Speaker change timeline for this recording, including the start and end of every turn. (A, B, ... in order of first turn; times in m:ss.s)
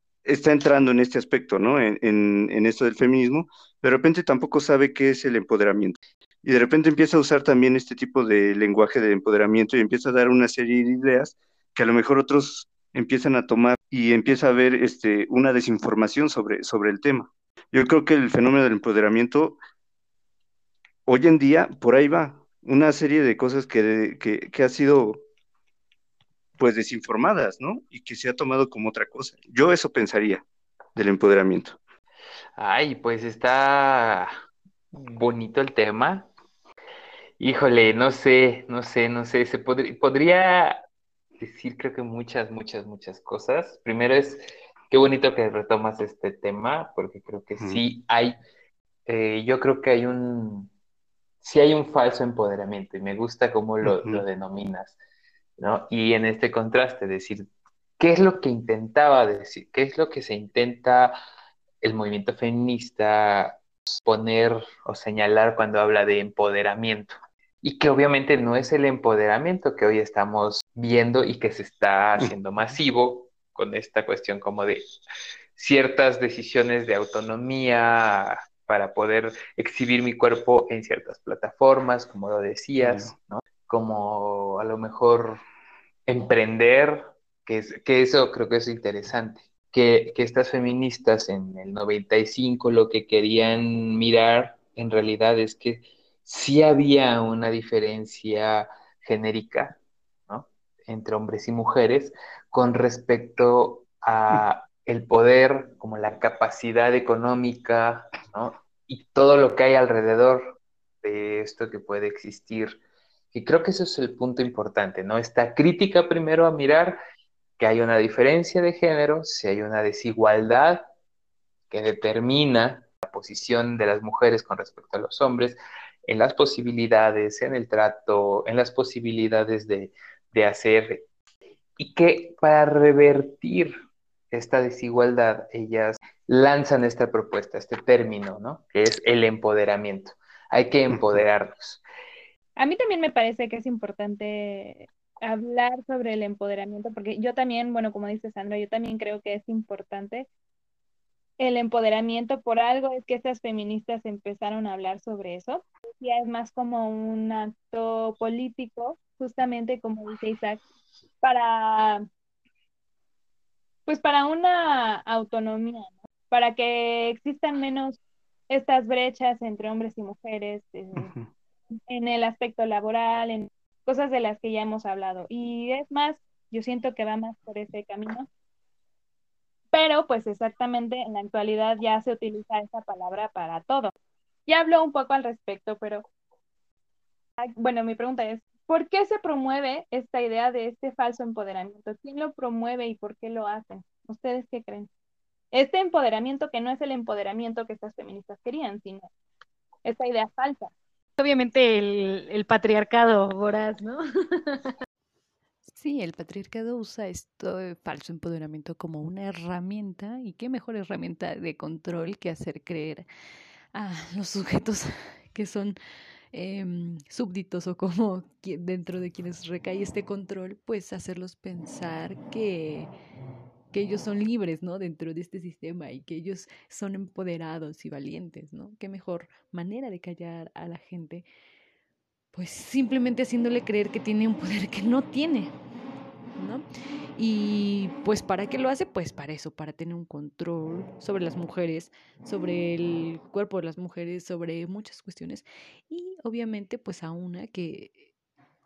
0:00.2-0:19.6 A
0:21.1-0:25.2 A
0:26.6-0:30.4 A
0:31.0-0:31.8 A
0:32.6-0:34.3 B
0:34.9-0:36.3 B
0:37.4-0:40.8 B
0:41.4-0:48.4 B
0:49.1-0:50.7 B
0:51.4-0:55.0 B
0:53.8-0:54.2 A
0:55.6-0:57.4 B
0:58.0-1:01.2 B
1:01.8-1:14.8 B
1:15.6-1:25.4 B
1:22.8-1:23.1 A
1:26.1-1:39.8 B
1:40.3-1:52.8 B
1:53.3-1:57.0 B
1:57.6-2:00.9 B
2:01.7-2:11.0 B
2:11.8-2:13.8 B
2:14.3-2:21.8 B
2:20.9-2:21.2 A
2:22.6-2:30.3 C
2:31.4-2:40.6 C
2:41.2-2:42.0 C
2:43.9-2:48.0 C
2:48.5-2:51.1 C
2:51.0-2:51.3 A
2:51.9-2:58.3 C
2:59.7-3:03.9 C
3:04.5-3:06.0 C
3:07.4-3:14.9 C
3:15.5-3:19.1 C
3:19.8-3:20.7 C
3:21.2-3:24.7 D
3:25.7-3:33.1 E
3:33.7-3:35.8 E
3:36.3-3:42.9 E
3:43.7-3:51.3 E
3:52.3-3:55.6 E
3:56.4-4:08.0 E